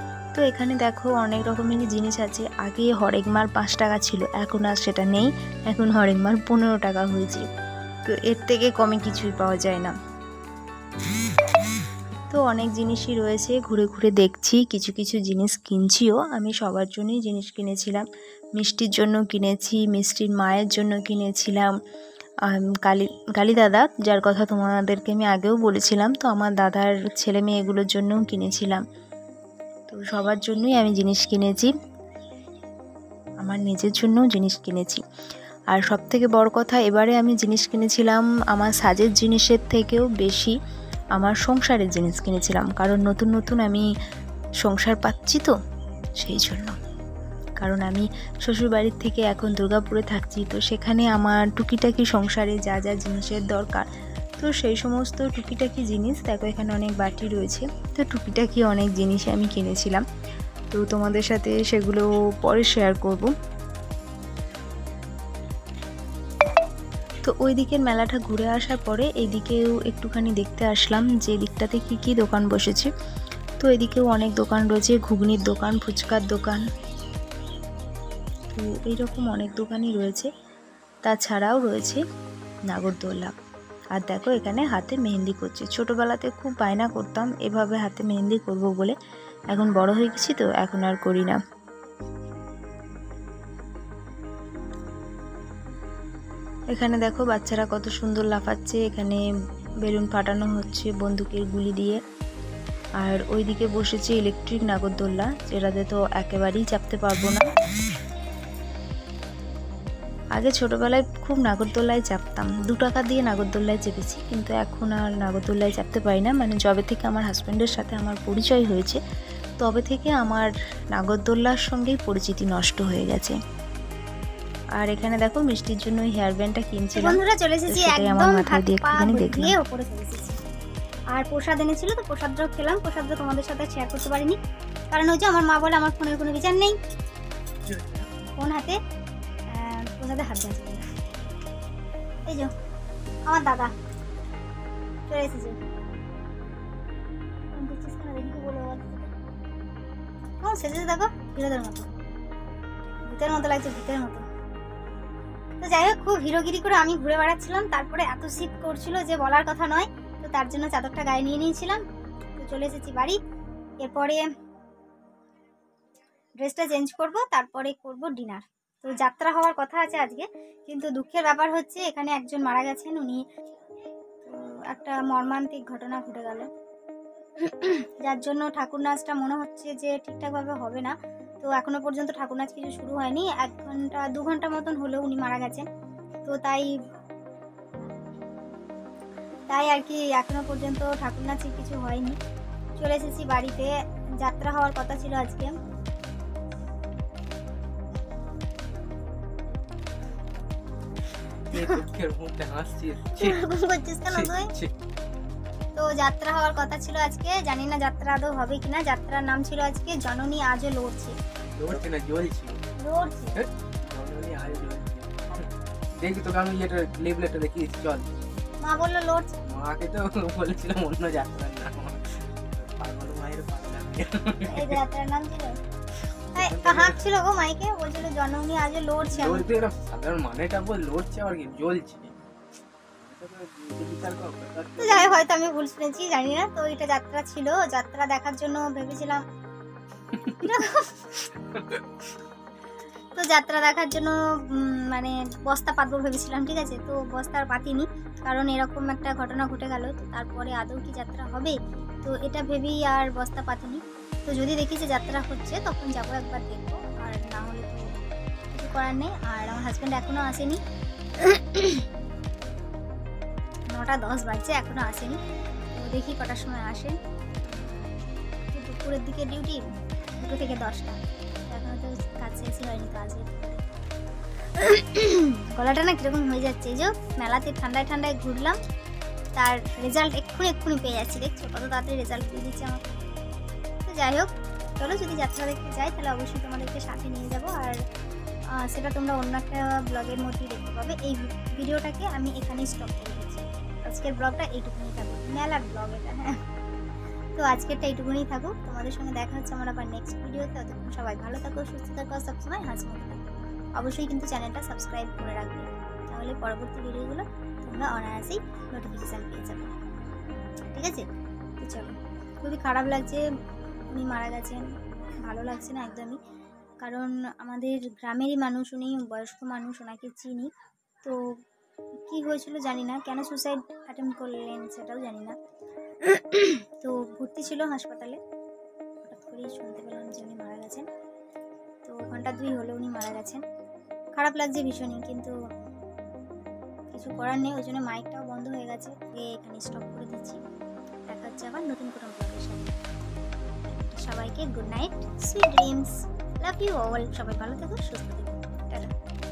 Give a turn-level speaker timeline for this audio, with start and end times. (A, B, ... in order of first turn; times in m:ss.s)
0:00.4-0:07.5 A
0:08.1-0:10.0 A
0:12.3-0:18.0 A
0:18.6-0:21.7 A
0:22.4-0:28.8 A
0:29.9-0:31.7 A
0:33.4-0:35.0 A
0:35.7-0:40.6 A
0:41.2-0:43.9 A
0:44.6-0:45.5 A
0:46.2-0:46.8 A
0:47.6-0:53.9 A
0:54.4-1:00.0 A
1:00.7-1:03.3 A
1:07.2-1:12.9 A
1:13.6-1:16.6 A
1:18.5-1:20.3 A
1:21.0-1:22.0 A
1:22.7-1:23.3 A
1:23.9-1:29.0 A
1:29.5-1:31.4 A
1:36.7-1:39.2 A
1:39.8-1:42.0 A
1:43.0-1:47.5 A
1:50.4-1:59.0 A
1:59.6-2:03.4 A
2:04.8-2:09.6 A
2:07.0-2:10.4 B
2:11.1-2:14.4 B
2:14.9-2:16.8 B
2:17.6-2:18.1 C
2:18.4-2:18.8 B
2:19.5-2:20.8 B
2:22.3-2:22.5 B
2:23.3-2:23.7 B
2:25.1-2:25.6 B
2:27.5-2:29.1 B
2:30.4-2:31.9 B
2:33.1-2:34.2 B
2:35.6-2:41.8 B
2:42.4-2:43.2 B
2:43.8-2:44.3 B
2:46.4-2:53.2 B
2:54.2-2:56.5 B
2:57.4-3:05.7 B
3:06.2-3:06.7 B
3:09.5-3:12.2 B
3:12.8-3:15.6 B
3:21.5-3:23.4 C
3:23.2-3:24.5 B
3:24.1-3:24.7 C
3:25.8-3:31.2 B
3:31.5-3:32.6 C
3:32.8-3:33.4 B
3:33.4-3:38.1 C
3:38.6-3:39.4 B
3:39.5-3:44.8 C
3:44.5-3:45.6 B
3:46.3-3:47.0 C
3:46.4-3:49.5 B
3:49.1-3:52.1 C
3:53.0-3:55.2 C
3:54.8-3:59.2 B
4:00.3-4:01.0 B
4:01.5-4:01.8 C
4:03.2-4:17.8 B
4:18.5-4:20.6 B
4:21.2-4:21.8 B
4:23.7-4:25.2 B
4:25.8-4:27.8 B
4:28.5-4:29.7 B
4:30.2-4:33.6 B
4:34.6-4:38.6 B
4:39.4-4:42.8 B
4:43.9-4:47.8 B
4:48.5-4:56.4 B
4:57.4-5:03.2 B
5:03.8-5:09.8 B
5:10.7-5:11.1 B
5:11.6-5:13.2 B
5:13.9-5:14.7 B
5:15.2-5:16.2 B
5:16.8-5:20.5 B
5:22.1-5:25.4 B
5:26.0-5:28.2 B
5:29.0-5:30.9 B
5:31.8-5:33.4 B
5:34.2-5:35.3 B
5:36.9-5:40.4 B
5:41.1-5:42.7 B
5:43.7-5:48.9 B